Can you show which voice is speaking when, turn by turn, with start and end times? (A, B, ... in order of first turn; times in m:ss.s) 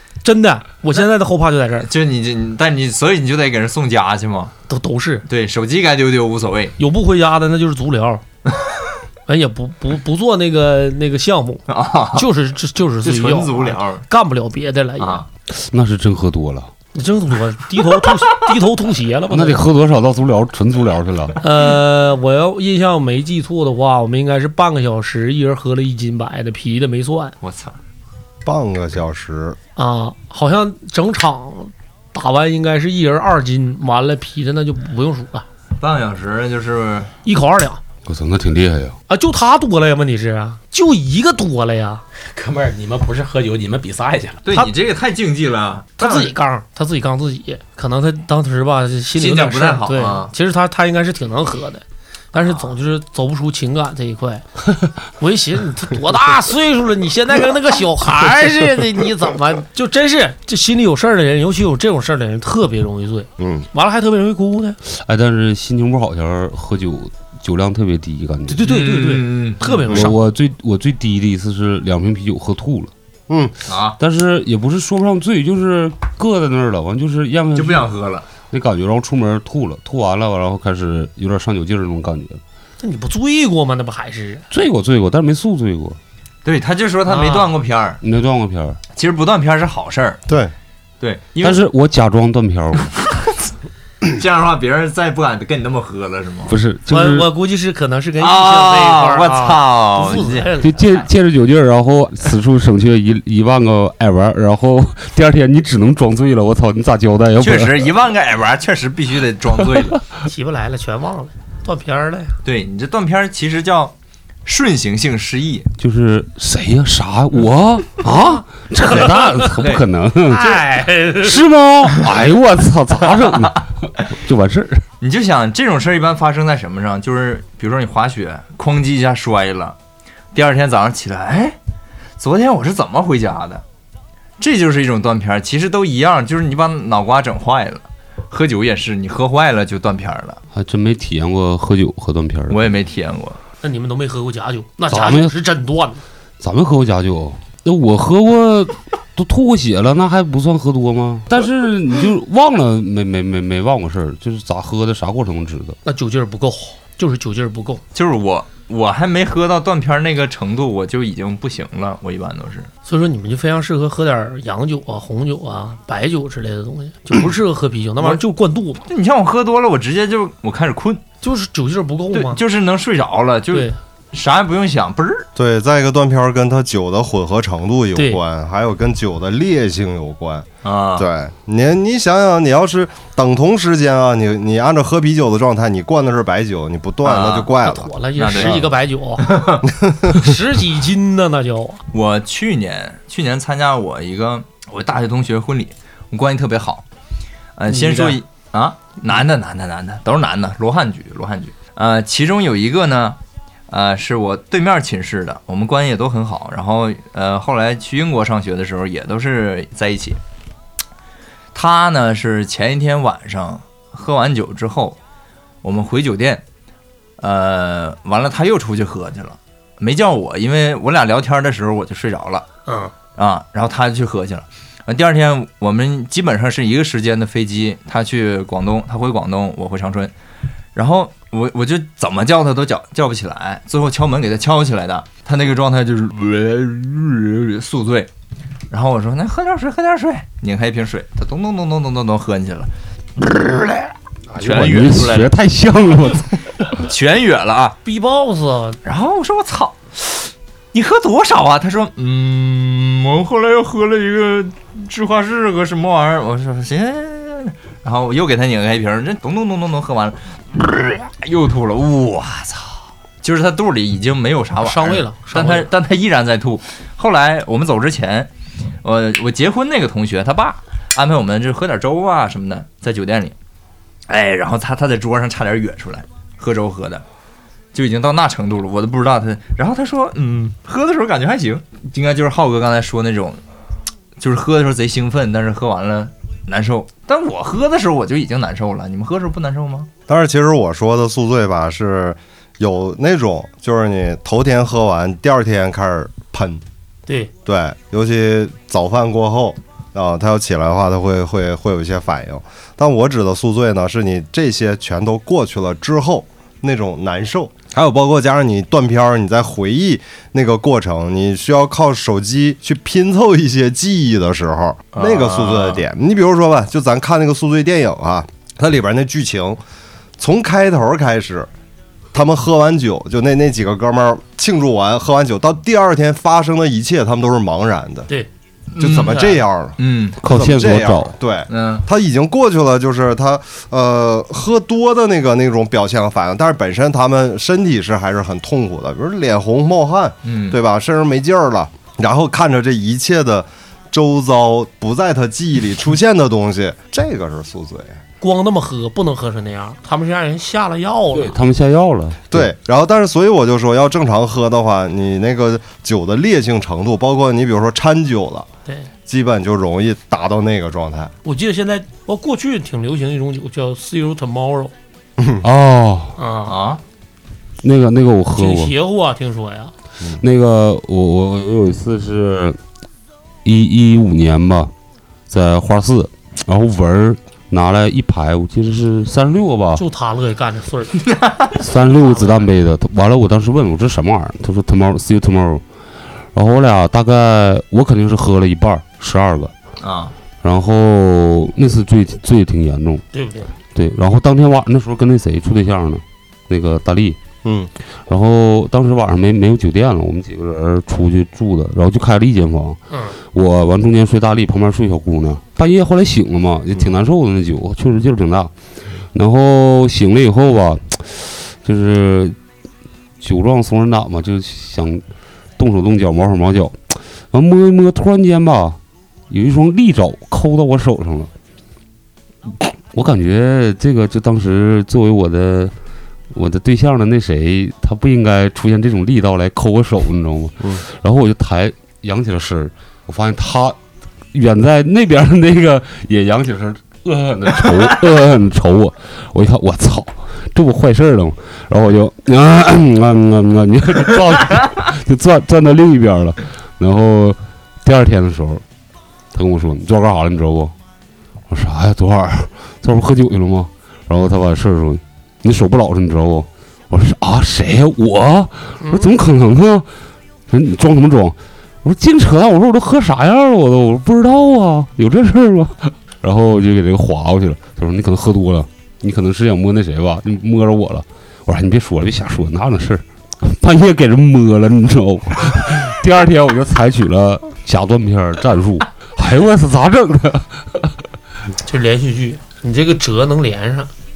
0:00.2-0:01.9 A
0:01.8-0:04.5 B
0:04.7-0:05.2 A
0:05.3-0:06.8 B
0:06.8-0:08.2 A
0:09.3-0:15.2 A
0:11.7-0:12.3 B
0:13.0-0:14.0 B
0:15.0-0:15.2 B
0:15.5-0:16.7 C
0:16.9-0:19.6 A
0:19.3-0:21.4 C
0:21.4-0:27.3 A
0:27.4-0:27.8 B
0:28.4-0:29.6 D
0:29.8-0:35.4 A
0:35.8-0:37.1 B
0:37.2-0:37.8 A
0:38.0-0:39.0 C
0:39.1-0:42.0 A
0:42.3-0:44.4 E
0:44.4-0:46.3 B
0:46.0-0:54.4 A
0:49.1-0:50.3 B
0:55.2-1:04.8 A
1:03.4-1:03.6 D
1:04.9-1:08.6 C
1:08.5-1:10.2 A
1:08.6-1:09.6 B
1:09.9-1:12.9 C
1:13.3-1:13.5 D
1:13.6-1:14.0 B
1:14.0-1:17.9 C
1:17.5-1:18.2 B
1:18.5-1:22.4 C
1:22.8-1:24.4 A
1:24.5-1:26.0 C
1:26.4-1:28.0 B
1:27.0-1:27.5 A
1:28.0-1:28.8 C
1:29.0-1:30.2 B
1:30.3-1:30.5 D
1:31.0-1:31.6 B
1:31.4-1:32.9 C
1:34.1-1:36.5 B
1:36.5-1:37.3 C
1:36.9-1:40.7 A
1:38.2-1:41.0 B
1:40.6-1:47.9 C
1:47.4-1:50.0 B
1:50.2-1:52.3 A
1:52.4-1:53.9 B
1:54.4-1:55.7 B
1:55.8-2:00.6 C
1:58.0-1:59.0 A
1:59.6-1:59.8 B
2:00.2-2:01.4 A
2:01.2-2:04.8 C
2:05.0-2:09.8 B
2:10.3-2:11.6 B
2:12.2-2:13.6 B
2:14.4-2:20.4 B
2:20.5-2:22.6 C
2:22.5-2:23.4 B
2:23.6-2:26.0 A
2:24.9-2:25.3 C
2:26.4-2:35.8 C
2:35.8-2:37.8 A
2:37.9-2:42.7 B
2:42.8-2:48.8 A
2:48.8-2:51.0 B
2:51.2-2:52.4 A
2:52.1-2:55.2 B
2:55.4-3:08.7 D
3:00.6-3:01.1 B
3:07.0-3:07.5 B
3:07.6-3:09.4 A
3:08.2-3:08.6 B
3:09.2-3:09.6 B
3:09.6-3:10.2 D
3:10.1-3:11.8 A
3:11.9-3:16.8 B
3:17.6-3:23.2 B
3:17.7-3:18.2 A
3:23.7-3:30.2 B
3:31.5-3:35.0 B
3:35.6-3:36.4 B
3:37.2-3:42.4 B
3:42.7-3:42.9 A
3:43.2-3:50.1 B
3:50.7-3:58.1 B
3:58.7-4:05.4 B
4:04.4-4:06.3 C
4:06.7-4:07.8 B
4:07.8-4:08.8 A
4:08.8-4:28.3 B
4:24.6-4:25.7 A
4:28.8-4:33.3 B
4:34.1-4:37.0 B
4:37.7-4:43.4 B
4:44.2-4:49.9 B
4:50.1-4:56.6 D
4:57.1-4:57.3 A
4:57.4-5:19.6 D
5:14.9-5:15.8 B
5:20.2-5:21.5 D
5:22.1-5:28.1 D
5:28.7-5:29.2 B
5:28.8-5:48.0 D
5:28.8-5:29.4 A
5:29.8-5:30.2 B
5:30.2-5:31.1 C
5:31.5-5:31.8 B
5:40.2-5:40.6 B
5:48.2-5:51.4 A
5:51.1-5:52.5 C
5:52.3-5:58.5 D
5:59.1-6:01.1 D
6:01.2-6:04.7 A
6:05.4-6:06.1 C
6:06.2-6:06.6 A
6:06.5-6:06.8 B
6:07.6-6:08.7 C
6:08.3-6:09.7 A
6:10.2-6:12.6 C
6:13.4-6:14.7 C
6:15.3-6:19.8 C
6:19.8-6:21.0 A
6:21.1-6:21.5 B
6:21.6-6:25.6 C
6:21.8-6:22.5 A
6:26.3-6:29.5 C
6:29.8-6:30.1 B
6:30.4-6:33.0 C
6:33.1-6:33.5 A
6:33.7-6:37.2 C
6:37.4-6:37.7 D
6:38.1-6:48.5 C
6:49.1-6:52.4 C
6:53.2-6:55.0 C
6:55.6-6:58.8 C
6:59.3-7:01.3 C
7:02.9-7:05.7 C
7:06.3-7:13.8 C
7:14.3-7:28.6 C
7:29.3-7:30.7 C
7:31.5-7:39.9 C
7:38.8-7:39.1 A
7:40.5-8:00.9 C
8:01.6-8:03.9 A